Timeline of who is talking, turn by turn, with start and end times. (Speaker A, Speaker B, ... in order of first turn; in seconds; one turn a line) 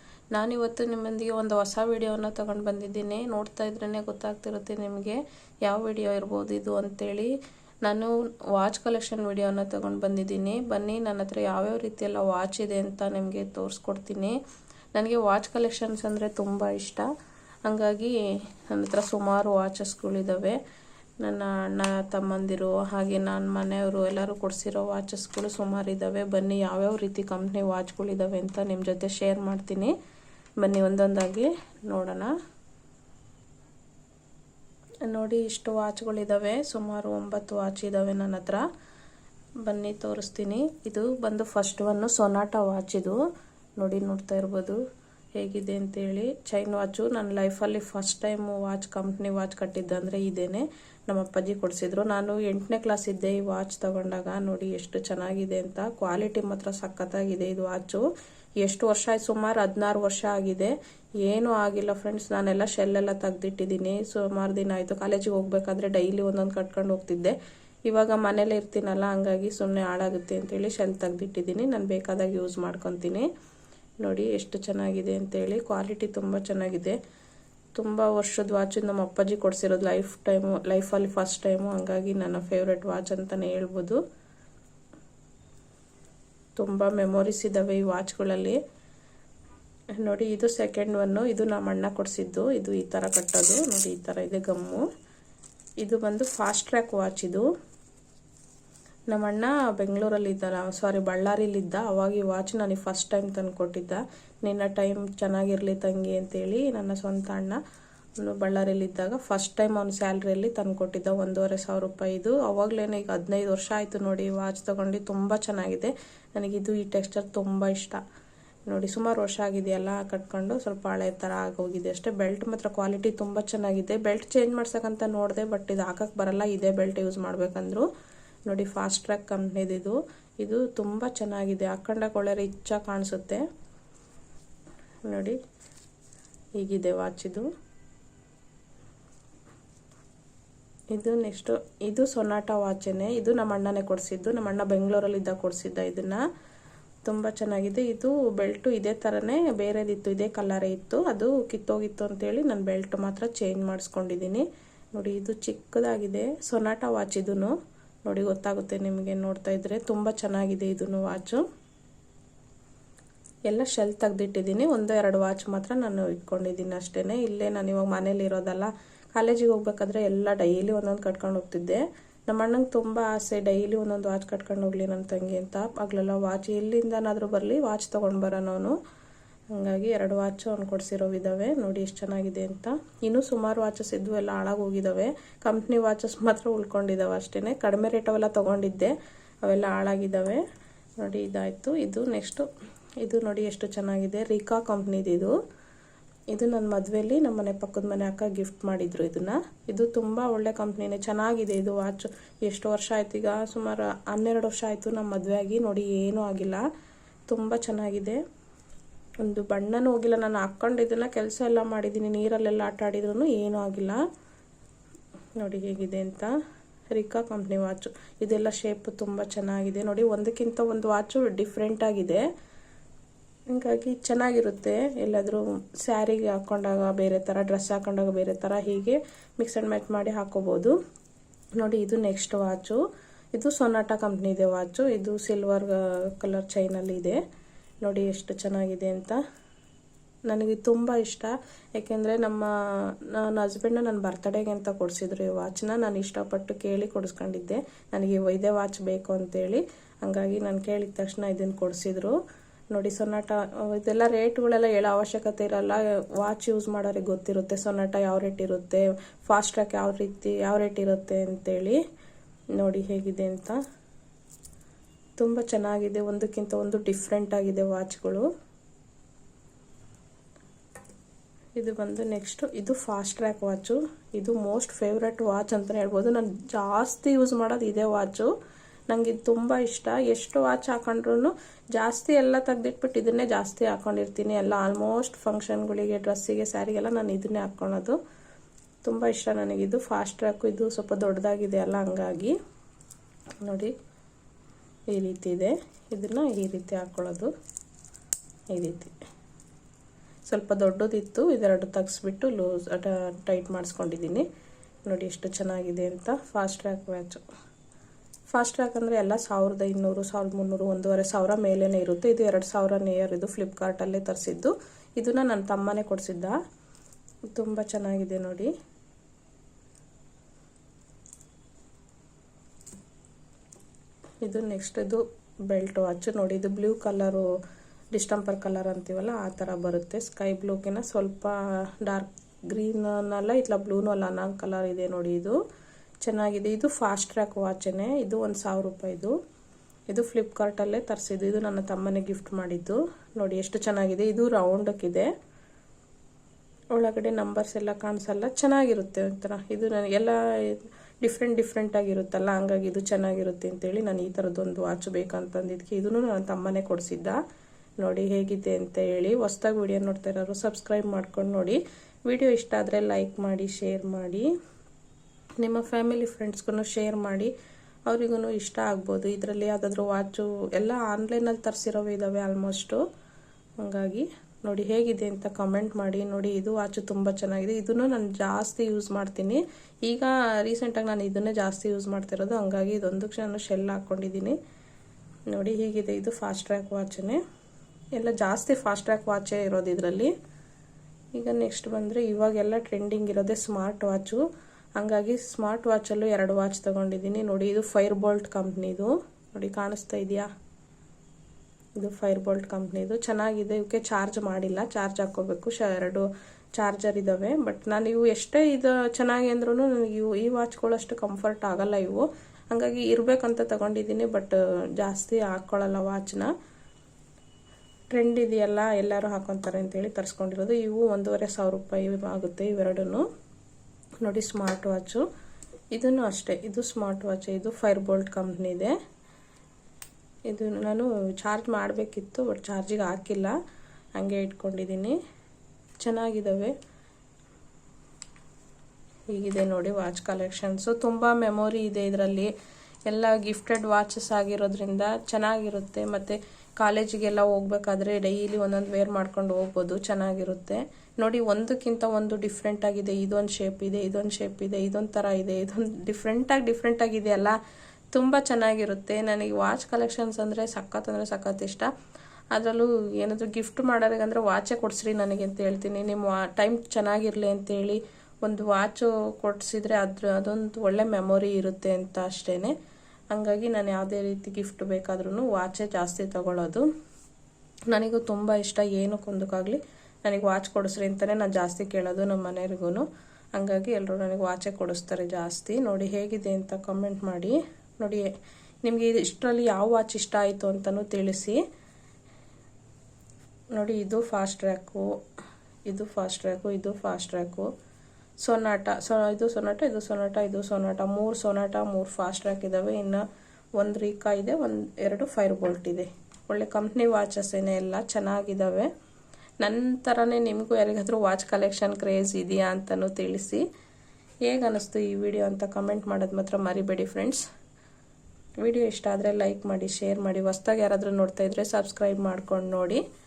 Speaker A: 0.3-7.3
Speaker A: 7.8-14.4
Speaker A: 14.9-17.1
Speaker A: 17.6-20.6
Speaker A: 21.2-29.9
Speaker A: 30.6-32.3
Speaker A: 35.1-38.6
Speaker A: 39.6-43.2
Speaker A: 43.8-44.8
Speaker A: 45.4-58.0
Speaker A: 58.6-67.3
Speaker A: 67.9-73.2
Speaker A: 74.0-77.0
Speaker A: 77.8-84.0
Speaker A: 86.6-88.6
Speaker A: 90.0-94.8
Speaker A: 95.8-97.5
Speaker A: 99.1-107.6
Speaker A: 108.2-118.0
Speaker A: 118.7-127.9
Speaker A: 128.5-133.4
Speaker A: 135.1-135.4
Speaker A: 136.6-137.5
Speaker A: 140.9-146.2
Speaker A: 147.1-154.4
Speaker A: 154.9-157.5
Speaker A: 158.1-161.4
Speaker A: 163.5-178.8
Speaker A: 179.5-188.9
Speaker A: 189.4-190.4
Speaker A: 191.0-192.5
Speaker A: 193.0-195.3
Speaker A: 196.3-206.6
Speaker A: 207.3-208.2
Speaker A: 209.2-214.0
Speaker A: 215.4-216.3
Speaker A: 216.9-222.2
Speaker A: 223.5-230.7
Speaker A: 231.6-232.8
Speaker A: 233.3-237.2
Speaker A: 237.8-239.2
Speaker A: 240.3-242.5
Speaker A: 243.0-252.1
Speaker A: 252.7-261.8
Speaker A: 262.6-263.6
Speaker A: 265.2-268.3
Speaker A: 271.6-278.3
Speaker A: 278.9-288.0
Speaker A: 288.8-292.4
Speaker A: 293.4-293.7
Speaker A: 294.9-297.3
Speaker A: 298.5-298.9
Speaker A: 300.3-304.2
Speaker A: 304.9-307.2
Speaker A: 308.3-316.4
Speaker A: 317.4-318.5
Speaker A: 324.2-327.3
Speaker A: 327.9-335.4
Speaker A: 336.0-339.1
Speaker A: 339.9-345.1
Speaker A: 346.8-357.2
Speaker A: 357.8-364.3
Speaker A: 365.4-367.3
Speaker A: 367.9-372.8
Speaker A: 373.6-384.4
Speaker A: 385.3-387.2
Speaker A: 388.0-390.1
Speaker A: 391.1-394.2
Speaker A: 394.8-400.3
Speaker A: 401.8-406.1
Speaker A: 406.6-416.3
Speaker A: 417.9-423.0
Speaker A: 424.0-425.0
Speaker A: 425.7-428.7
Speaker A: 430.3-433.3
Speaker A: 434.0-434.9
Speaker A: 435.8-436.5
Speaker A: 439.1-442.3
Speaker A: 442.9-457.4
Speaker A: 457.9-461.7
Speaker A: 462.3-472.5
Speaker A: 473.1-476.6
Speaker A: 477.7-482.9
Speaker A: 483.4-488.1
Speaker A: 488.6-491.4
Speaker A: 493.6-494.8
Speaker A: 495.7-497.5
Speaker A: 498.2-503.0
Speaker A: 503.6-508.7
Speaker A: 509.4-513.4
Speaker A: 514.3-517.2
Speaker A: 518.4-522.8